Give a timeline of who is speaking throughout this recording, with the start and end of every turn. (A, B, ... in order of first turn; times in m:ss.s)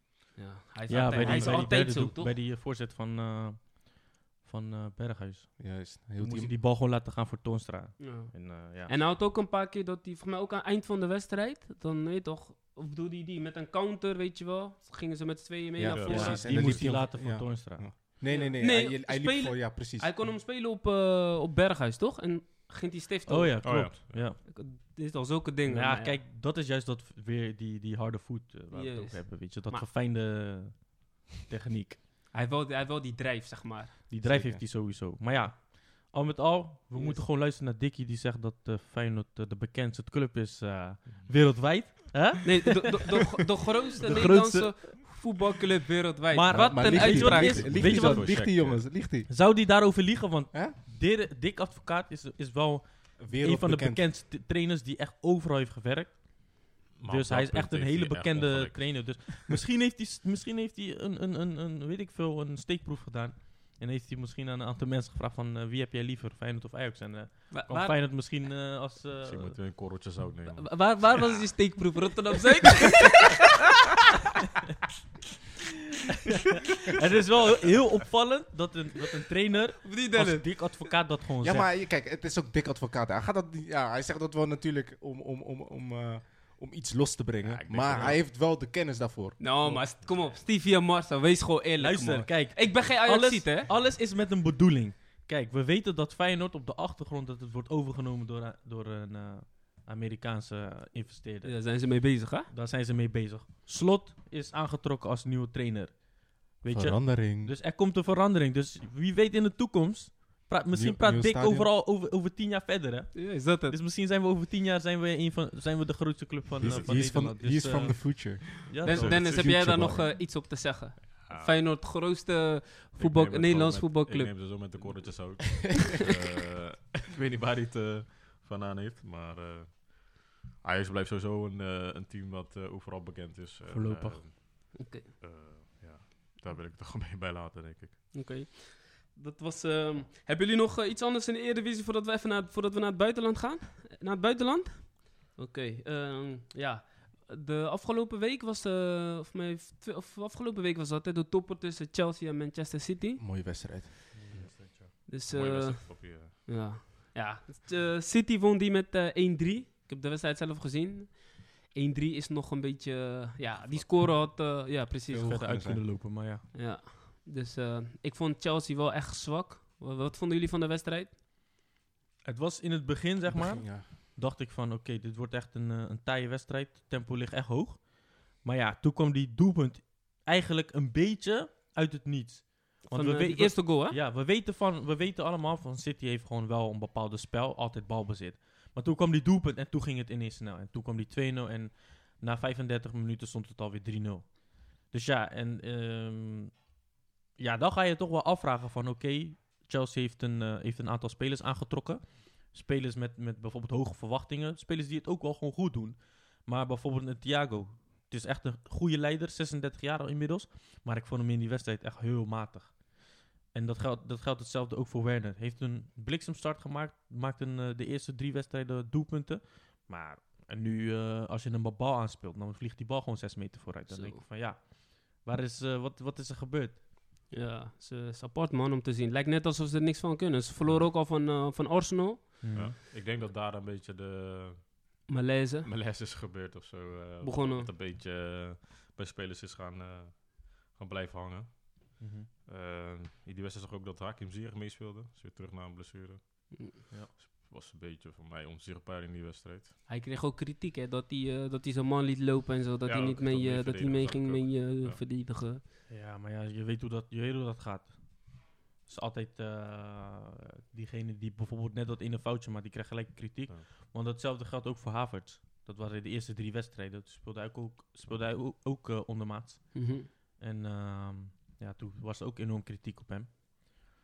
0:00.4-0:02.3 A
0:00.9-0:09.0 B
0:01.2-0:01.6 C
0:01.2-0:01.5 D
0:05.6-0:06.5 C
0:08.0-0:16.8 A
0:15.8-0:20.1 C
0:15.9-0:16.8 D
0:16.1-0:17.9 B
0:18.2-0:23.7 A
0:23.2-0:24.4 B
0:23.6-0:24.3 D
0:24.4-0:26.2 A
0:25.6-0:32.0 B
0:28.7-0:29.9 A
0:32.3-0:34.0 A
0:34.1-0:43.1 B
0:34.2-0:34.6 C
0:36.9-0:37.2 A
0:41.1-0:41.9 D
0:42.4-0:47.7 A
0:44.0-0:45.2 B
0:46.3-1:09.6 B
0:46.5-0:49.3 C
0:47.2-0:48.8 D
0:53.2-0:54.1 C
0:57.0-0:59.5 D
1:07.5-1:08.0 A
1:09.2-1:11.4 D
1:10.6-1:13.5 A
1:16.8-1:21.7 B
1:19.8-1:20.9 A
1:21.4-1:29.8 C
1:27.4-1:28.2 D
1:29.4-1:33.7 A
1:30.0-1:30.4 D
1:31.8-1:59.3 B
1:41.4-1:42.5 A
1:46.7-1:47.5 C
1:50.7-1:51.7 C
1:53.1-1:53.8 A
1:56.6-2:00.1 C
1:56.6-1:57.2 D
1:58.7-1:59.4 D
1:58.8-2:04.6 A
2:01.0-2:01.6 D
2:03.0-2:18.1 D
2:13.7-2:14.4 B
2:14.7-2:15.1 A
2:18.1-2:33.7 A
2:33.2-2:33.9 C
2:34.1-2:34.9 B
2:34.3-2:36.8 D
2:35.1-2:45.4 A
2:43.6-2:44.0 D
2:45.1-2:45.8 C
2:45.2-2:46.4 B
2:46.5-2:51.1 A
2:52.2-3:16.7 B
2:53.2-2:53.9 C
3:02.8-3:04.0 A
3:17.3-3:33.0 B
3:33.5-3:46.8 B
3:43.9-3:44.2 A
3:47.3-3:52.6 A
3:52.4-3:52.8 B
3:52.5-3:55.1 D
3:55.1-3:55.7 A
3:55.6-4:09.8 D
3:57.2-3:57.7 A
4:02.0-4:02.3 B
4:09.9-4:15.6 A
4:12.8-4:15.0 D
4:15.9-4:33.8 B
4:29.7-4:30.1 A